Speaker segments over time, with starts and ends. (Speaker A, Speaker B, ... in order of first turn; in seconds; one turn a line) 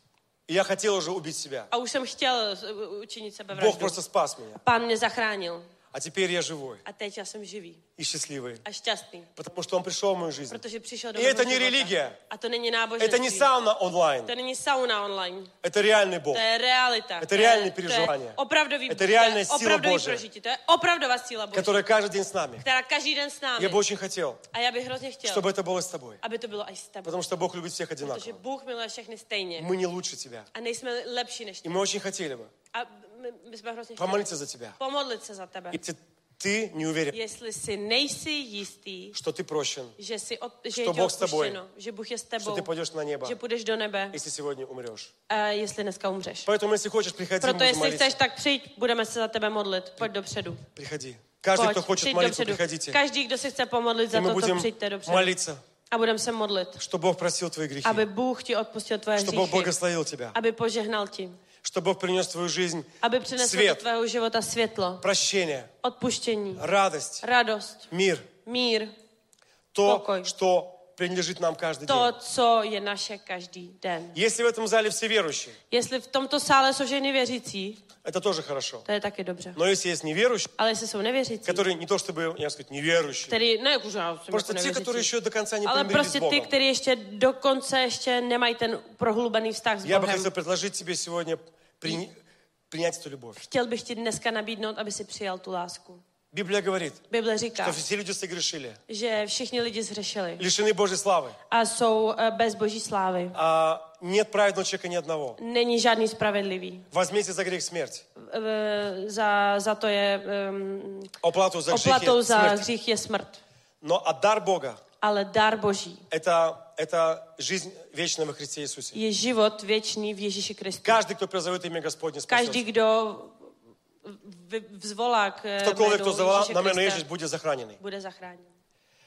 Speaker A: 0.5-1.7
Speaker B: 1.7-4.0
Speaker A: 3.5-4.6
Speaker B: 4.6-5.7
Speaker A: 5.9-6.8
Speaker B: 6.8-7.9
Speaker A: 8.0-8.6
Speaker B: 8.6-9.3
Speaker A: 9.4-10.6
Speaker B: 10.5-13.5
Speaker A: 11.2-12.2
Speaker A: 13.0-14.3
Speaker B: 14.3-15.5
Speaker A: 15.6-16.4
Speaker B: 16.3-21.8
Speaker A: 17.2-18.4
Speaker A: 18.9-20.2
Speaker A: 21.5-22.6
Speaker B: 22.6-23.8
Speaker A: 23.6-24.4
Speaker B: 24.5-25.5
Speaker A: 25.2-26.2
Speaker B: 26.2-27.2
Speaker A: 27.1-28.4
Speaker B: 28.0-29.7
Speaker A: 29.6-30.5
Speaker B: 30.5-31.7
Speaker A: 31.6-32.5
Speaker B: 32.7-35.8
Speaker A: 34.0-34.8
Speaker A: 35.7-37.1
Speaker B: 37.1-39.2
Speaker A: 39.1-40.0
Speaker B: 40.0-42.7
Speaker A: 40.7-41.6
Speaker A: 42.4-43.4
Speaker B: 43.2-44.2
Speaker A: 44.1-45.1
Speaker B: 45.3-46.5
Speaker A: 46.5-48.1
Speaker B: 47.4-50.6
Speaker A: 50.8-53.0
Speaker B: 51.6-55.3
Speaker A: 54.1-55.6
Speaker B: 55.9-56.8
Speaker A: 56.8-58.0
Speaker B: 57.8-59.7
Speaker A: 59.1-60.4
Speaker B: 60.3-61.4
Speaker A: 61.6-63.8
Speaker B: 63.0-65.0
Speaker A: 65.0-65.7
Speaker B: 65.8-66.6
Speaker A: 66.6-67.2
Speaker B: 67.2-67.9
Speaker A: 67.9-68.3
Speaker B: 68.4-68.9
Speaker A: 69.7-72.1
Speaker B: 69.8-70.3
Speaker B: 71.9-74.2
Speaker A: 74.1-75.6
Speaker B: 75.7-77.8
Speaker A: 77.9-78.9
Speaker B: 78.9-79.6
Speaker A: 79.6-80.5
Speaker B: 80.6-81.6
Speaker A: 81.5-83.3
Speaker B: 83.3-85.1
Speaker A: 84.3-86.5
Speaker B: 85.7-90.3
Speaker A: 89.8-93.4
Speaker B: 93.4-96.0
Speaker A: 96.3-97.0
Speaker B: 97.1-97.8
Speaker A: 97.6-98.8
Speaker B: 98.9-100.5
Speaker A: 100.4-101.4
Speaker B: 101.5-103.4
Speaker A: 103.3-105.4
Speaker B: 105.4-106.9
Speaker A: 106.9-108.0
Speaker B: 108.2-111.1
Speaker A: 111.2-112.7
Speaker B: 111.7-113.4
Speaker A: 113.8-114.8
Speaker B: 115.0-116.0
Speaker A: 116.1-119.0
Speaker B: 118.9-121.0
Speaker A: 120.8-122.6
Speaker B: 122.3-123.4
Speaker B: 124.0-127.0
Speaker A: 125.6-127.8
Speaker B: 127.8-128.5